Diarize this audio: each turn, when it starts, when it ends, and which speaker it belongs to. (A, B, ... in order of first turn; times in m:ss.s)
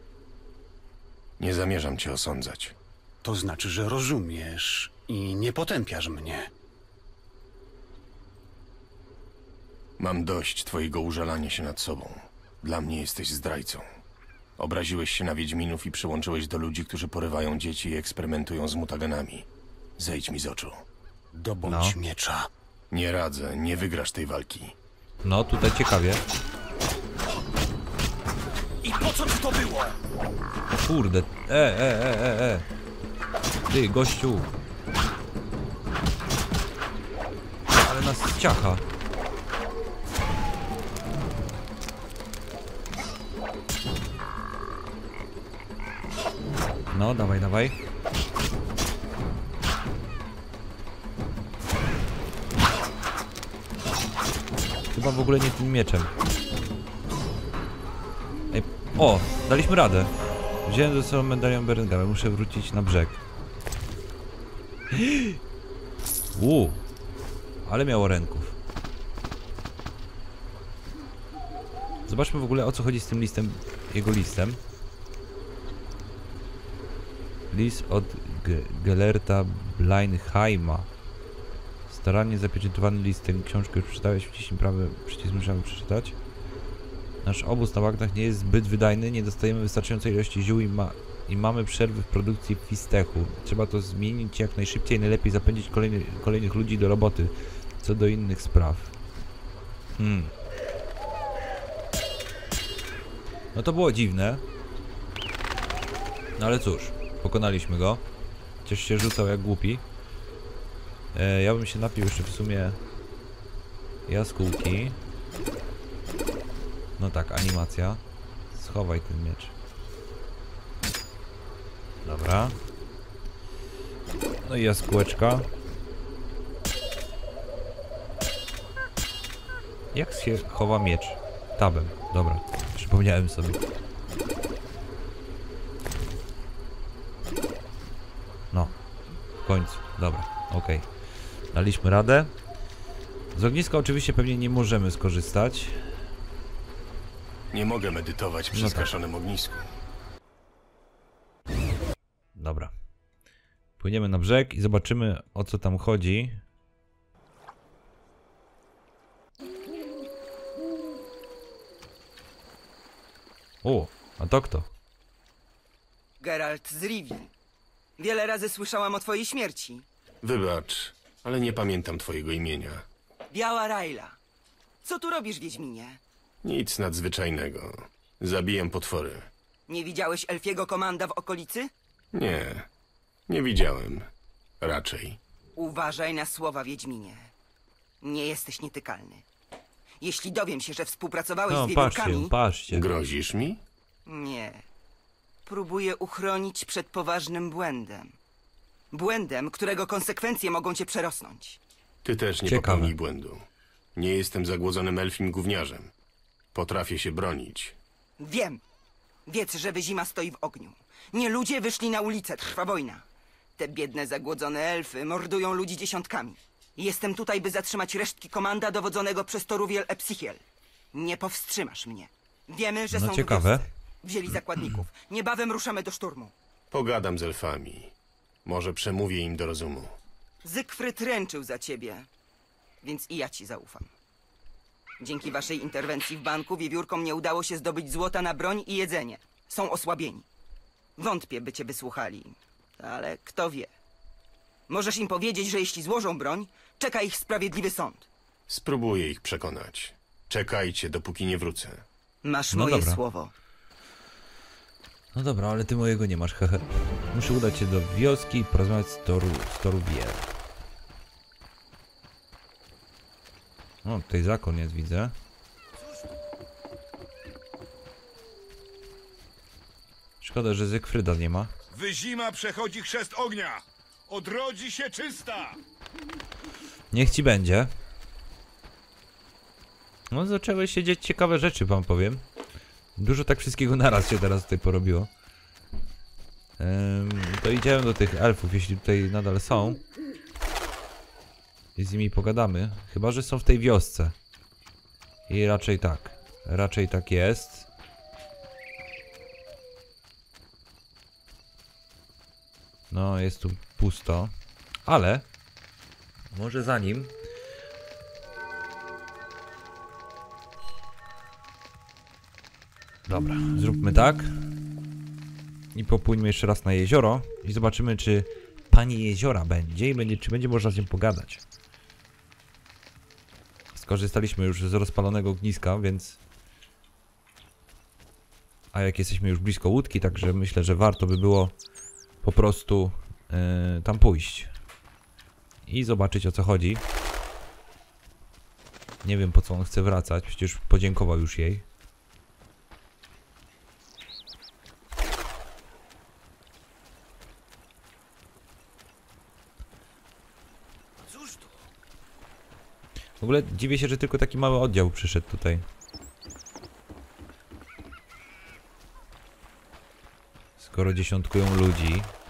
0:01.4-0:02.7 A
0:03.2-0:06.5 B
0:10.0-0:13.8 A
0:14.6-0:19.5 A
0:20.0-0:20.8 A
0:21.3-0:22.5 B
0:21.6-0:22.0 C
0:22.9-0:24.7 A
0:25.2-0:26.2 C
0:28.8-0:30.0 B
0:30.7-0:32.6 C
0:33.7-0:34.5 C
0:37.7-0:38.8 C
0:46.9-0:47.8 C
0:54.9-0:56.1 C
0:58.5-1:00.1 C
1:00.6-1:03.2 C
1:04.9-1:05.4 C
1:06.3-1:06.8 C
1:07.6-1:08.6 C
1:12.1-1:14.6 C
1:17.5-1:20.9 C
1:21.9-1:26.2 C
1:27.2-1:38.9 C
1:40.0-1:40.3 C
1:43.5-1:44.4 C
1:46.4-1:48.0 C
1:48.6-1:49.8 C
1:51.1-1:52.8 C
1:54.1-1:55.0 C
1:57.0-1:58.0 C
1:58.5-1:59.5 C
2:02.0-2:02.6 C
2:04.4-2:05.5 C
2:09.9-2:13.6 C
2:19.4-2:20.9 C
2:21.5-2:22.3 C
2:23.3-2:25.8 C
2:27.5-2:29.7 A
2:28.5-2:28.9 C
2:32.4-2:32.7 C
2:33.8-2:36.4 C
2:43.6-2:44.7 C
2:46.2-2:47.3 D
2:48.0-2:49.8 D
2:50.2-2:52.8 A
2:53.3-2:54.2 D
2:54.8-2:56.0 D
2:56.4-2:59.3 A
2:59.7-3:01.7 D
3:02.1-3:02.7 A
3:03.3-3:04.0 A
3:04.6-3:05.2 A
3:05.6-3:07.3 D
3:08.0-3:09.2 D
3:10.0-3:12.3 D
3:11.5-3:12.9 C
3:12.7-3:13.6 A
3:14.0-3:14.6 D
3:15.4-3:18.1 D
3:18.9-3:21.6 D
3:22.0-3:23.4 A
3:22.4-3:22.9 C
3:24.0-3:25.9 A
3:26.5-3:27.8 A
3:28.2-3:28.6 D
3:29.3-3:33.0 D
3:33.6-3:40.4 D
3:40.9-3:46.3 D
3:42.9-3:43.6 C
3:46.7-3:47.9 A
3:48.4-3:49.9 A
3:50.4-3:52.1 D
3:52.8-3:53.9 D
3:55.0-4:00.2 D
4:01.0-4:03.7 D
4:04.7-4:08.1 D
4:08.5-4:11.8 A
4:12.2-4:13.3 D
4:12.5-4:13.0 C
4:15.1-4:20.3 C
4:23.8-4:25.1 C
4:30.2-4:31.5 C
4:31.7-4:35.6 E
4:36.9-4:37.7 C
4:40.1-4:42.2 C
4:43.0-4:45.1 C
4:46.6-4:49.8 C
4:51.8-4:54.1 C
4:55.3-4:57.7 C
5:02.9-5:04.3 C
5:04.9-5:05.2 C
5:06.3-5:07.1 C
5:13.1-5:14.3 C
5:15.7-5:21.4 C
5:23.7-5:26.2 C
5:28.7-5:31.5 C
5:32.2-5:34.5 C
5:35.6-5:36.8 C
5:39.0-5:41.6 C
5:53.2-5:55.6 C
6:00.6-6:02.1 C